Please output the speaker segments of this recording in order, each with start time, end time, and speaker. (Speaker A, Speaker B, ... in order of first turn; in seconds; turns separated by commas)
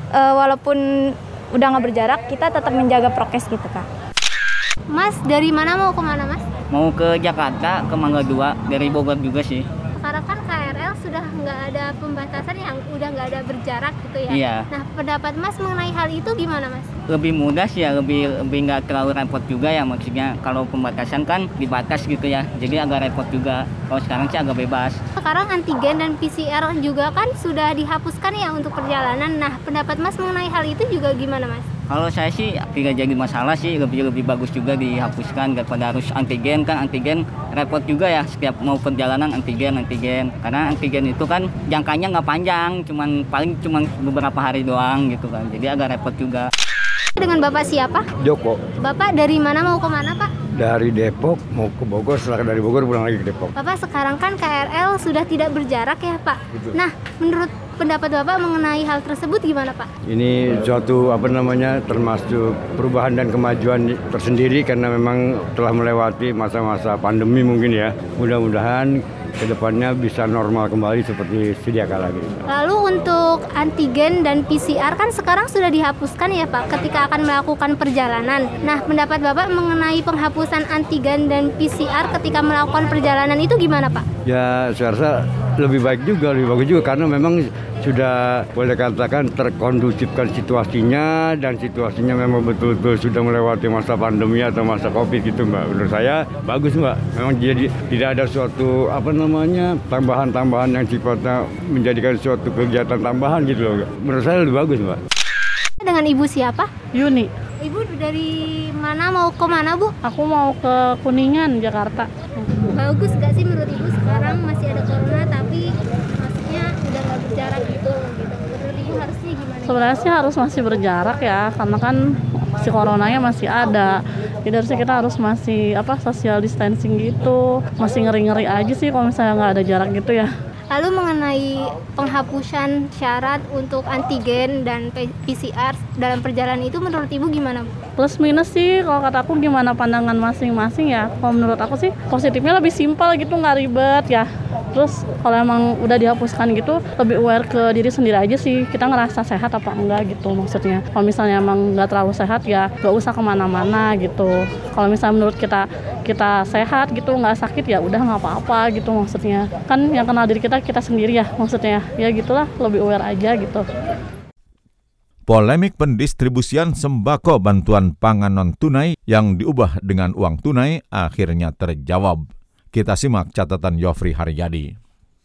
Speaker A: 0.1-0.8, Speaker A: 1.5-3.9, Speaker B: 4.9-6.4, Speaker C: 6.7-9.7, Speaker B: 10.0-16.9, Speaker C: 14.3-14.7, Speaker C: 17.1-25.0, Speaker B: 25.2-31.7, Speaker C: 31.9-46.5, Speaker B: 47.2-48.0, Speaker D: 48.2-48.6, Speaker B: 48.8-50.3, Speaker D: 50.5-53.5, Speaker B: 53.5-59.9, Speaker D: 60.1-72.4, Speaker B: 72.5-84.0, Speaker D: 84.2-105.0, Speaker B: 105.8-106.7, Speaker E: 106.9-107.3, Speaker B: 107.6-109.9, Speaker E: 110.0-112.1, Speaker B: 112.6-119.9, Speaker E: 119.6-122.0, Speaker E: 122.5-130.3, Speaker B: 130.7-137.7, Speaker E: 138.0-163.7, Speaker F: 165.3-174.7